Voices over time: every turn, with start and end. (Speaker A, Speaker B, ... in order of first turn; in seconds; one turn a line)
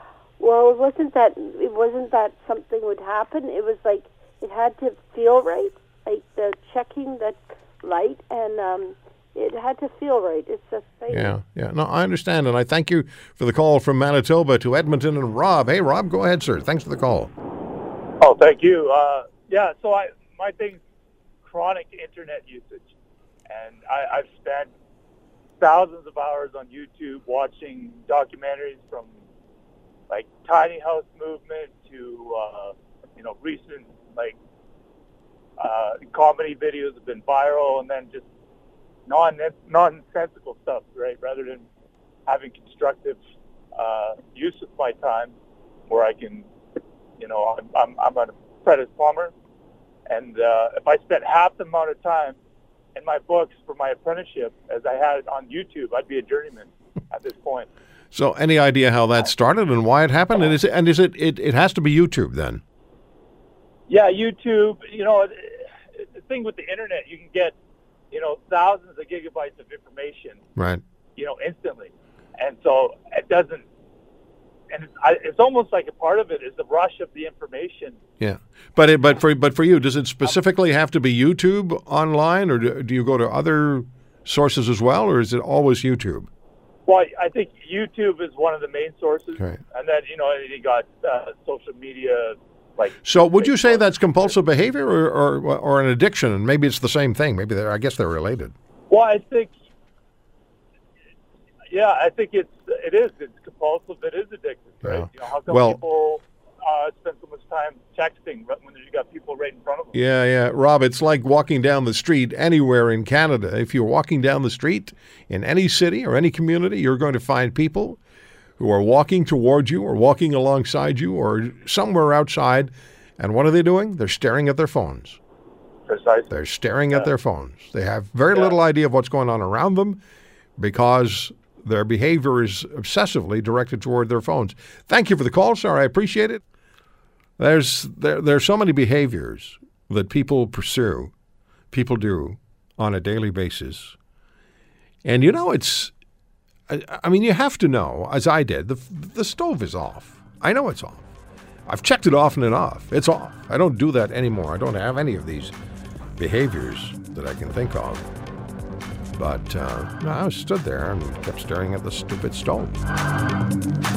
Speaker A: 0.4-11.4
Speaker B: 11.1-17.3
Speaker C: 18.2-20.8
Speaker C: 21.4-22.8
Speaker C: 23.5-24.7
Speaker C: 25.6-29.1
Speaker C: 30.1-34.4
Speaker C: 35.6-38.2
Speaker C: 39.1-41.6
Speaker C: 42.3-43.2
Speaker C: 43.8-45.3
Speaker C: 45.9-46.5
Speaker C: 47.2-49.3
Speaker C: 50.1-52.4
Speaker C: 53.0-57.7
Speaker B: 58.1-62.6
Speaker C: 63.9-65.7
Speaker C: 66.2-67.5
Speaker C: 68.1-70.4
Speaker B: 70.6-70.8
Speaker C: 71.2-73.7
Speaker C: 74.7-78.0
Speaker B: 78.2-86.3
Speaker C: 86.9-93.8
Speaker B: 93.0-98.5
Speaker C: 98.9-99.5
Speaker C: 101.7-110.0
Speaker B: 104.8-105.8
Speaker B: 109.9-118.0
Speaker B: 118.6-125.2
Speaker C: 125.9-126.3
Speaker B: 126.3-130.0
Speaker B: 130.6-136.4
Speaker B: 137.4-141.1
Speaker B: 141.7-144.0
Speaker B: 145.1-145.9
Speaker B: 146.7-151.1
Speaker B: 151.7-155.5
Speaker B: 156.2-158.1
Speaker B: 159.2-162.8